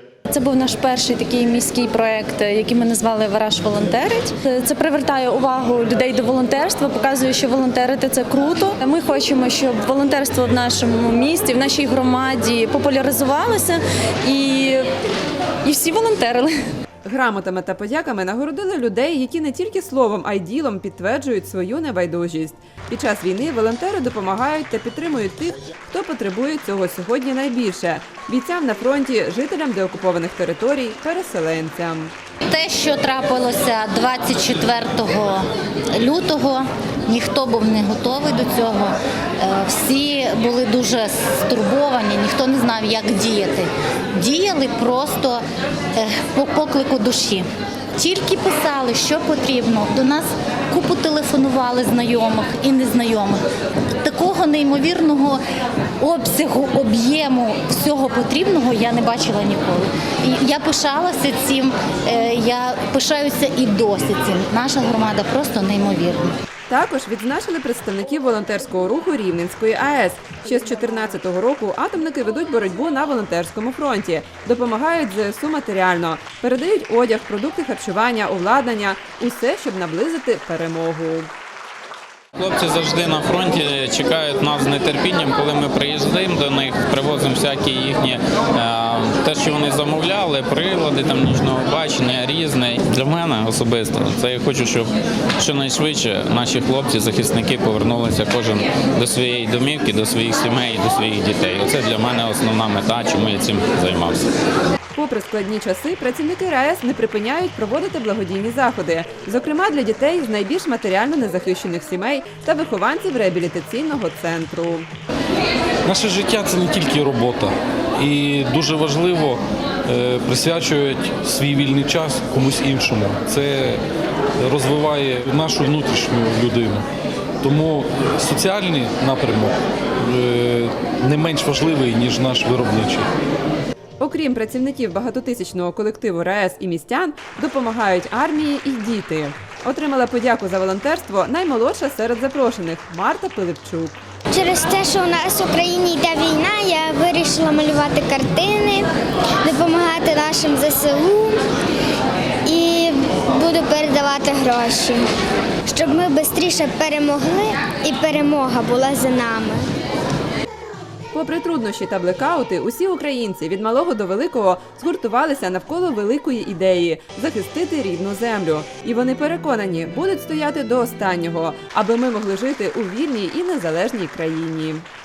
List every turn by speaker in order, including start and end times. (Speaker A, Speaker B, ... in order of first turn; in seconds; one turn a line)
Speaker A: 0.3-14.9
Speaker A: 15.6-16.5
Speaker B: 17.0-32.1
Speaker C: 32.5-45.4
Speaker C: 45.9-53.4
Speaker C: 54.0-55.4
Speaker C: 56.0-66.3
Speaker B: 66.7-81.3
Speaker D: 82.3-104.3
Speaker B: 104.9-114.9
Speaker E: 115.8-123.8
Speaker E: 124.5-126.8
Speaker E: 127.4-129.5
Speaker E: 130.2-133.1
Speaker B: 134.0-144.0
Speaker F: 144.3-148.9
Speaker F: 149.4-151.4
Speaker F: 152.4-155.1
Speaker F: 155.7-159.7
Speaker B: 161.1-174.8